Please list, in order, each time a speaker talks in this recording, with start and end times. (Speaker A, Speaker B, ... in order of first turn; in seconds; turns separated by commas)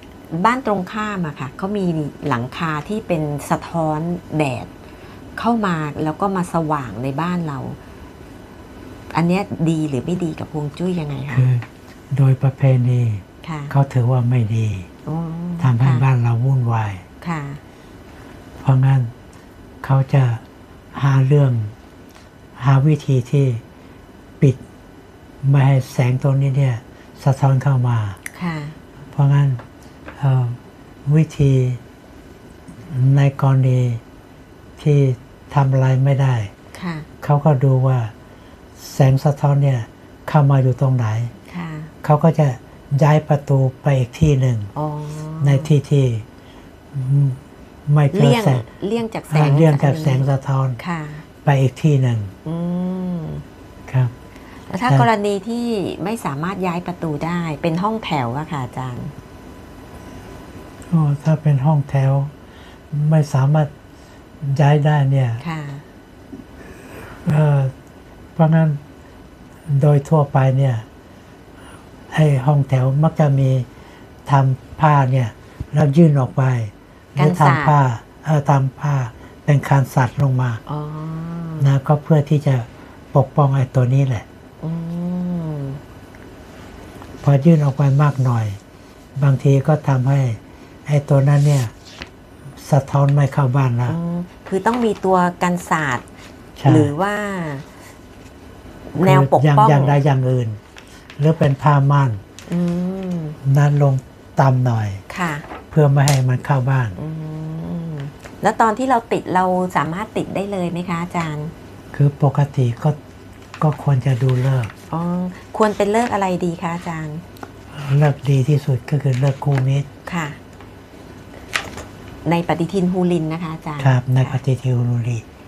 Speaker A: 0.3-4.7, Speaker A: 5.4-7.8, Speaker A: 9.1-11.5, Speaker B: 11.3-14.9, Speaker A: 13.4-13.7, Speaker A: 15.1-16.1, Speaker B: 15.6-17.0, Speaker A: 17.2-17.6, Speaker B: 18.6-19.1, Speaker B: 19.8-21.7, Speaker B: 22.6-23.6, Speaker B: 25.4-28.2, Speaker A: 28.3-28.8, Speaker B: 29.1-29.6, Speaker B: 30.2-31.8, Speaker B: 32.9-34.0, Speaker B: 34.8-36.5, Speaker A: 36.7-37.1, Speaker B: 37.2-38.1, Speaker B: 38.8-41.3, Speaker A: 41.5-41.9, Speaker B: 42.0-44.7, Speaker A: 44.8-45.7, Speaker B: 45.4-46.2, Speaker B: 46.9-48.6, Speaker A: 48.1-51.2, Speaker B: 49.3-50.8, Speaker B: 51.5-52.3, Speaker A: 52.5-53.4, Speaker A: 54.7-59.1, Speaker B: 60.9-62.3, Speaker B: 62.9-63.7, Speaker B: 64.4-65.4, Speaker A: 65.4-65.8, Speaker B: 67.2-67.7, Speaker B: 68.4-68.8, Speaker B: 69.7-70.8, Speaker B: 72.1-73.7, Speaker B: 74.3-80.6, Speaker A: 77.2-77.8, Speaker A: 80.7-81.7, Speaker B: 81.6-84.2, Speaker A: 84.6-85.8, Speaker B: 87.2-88.6, Speaker B: 89.2-91.7, Speaker B: 92.6-94.0, Speaker A: 93.9-96.0, Speaker B: 96.6-96.9, Speaker A: 96.7-97.7, Speaker A: 98.9-100.0, Speaker B: 99.0-100.6, Speaker B: 101.2-102.2, Speaker A: 102.5-103.4, Speaker B: 103.4-105.0, Speaker A: 105.1-105.5, Speaker B: 105.7-107.0, Speaker A: 107.0-111.5, Speaker B: 111.9-113.0, Speaker B: 113.6-114.7, Speaker A: 114.9-117.2, Speaker B: 117.7-119.9, Speaker A: 120.1-120.4, Speaker A: 122.2-124.4, Speaker B: 123.8-125.2